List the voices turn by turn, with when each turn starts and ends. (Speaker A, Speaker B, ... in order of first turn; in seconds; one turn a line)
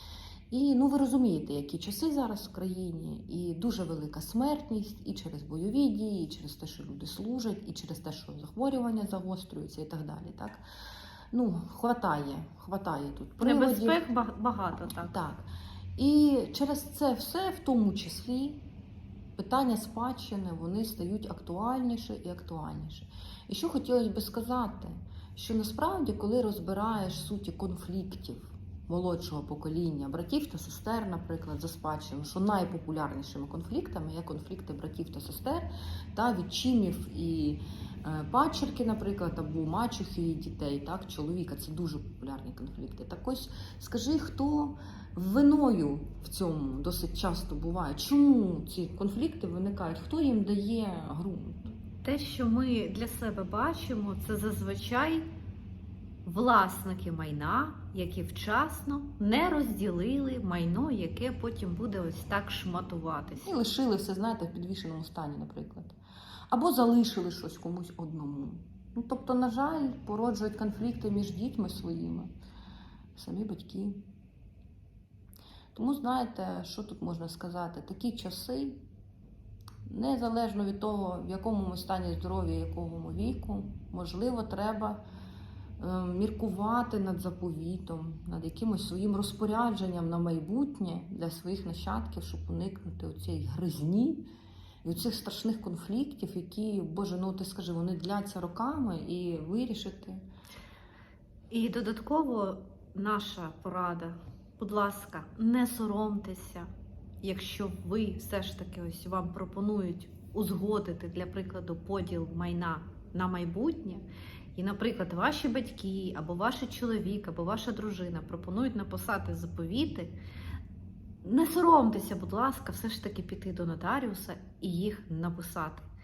Speaker A: 0.5-10.6
Speaker A: 11.3-14.0
Speaker B: 13.4-15.1
Speaker A: 14.7-18.6
Speaker A: 19.4-51.7
Speaker B: 52.0-55.2
Speaker B: 56.2-63.5
Speaker A: 63.4-66.0
Speaker A: 66.5-72.3
Speaker A: 73.1-74.0
Speaker A: 75.7-78.8
Speaker A: 79.8-85.0
Speaker A: 85.8-94.2
Speaker A: 94.8-100.2
Speaker B: 101.5-106.7
Speaker B: 107.2-114.0
Speaker B: 114.5-120.1
Speaker B: 121.2-125.8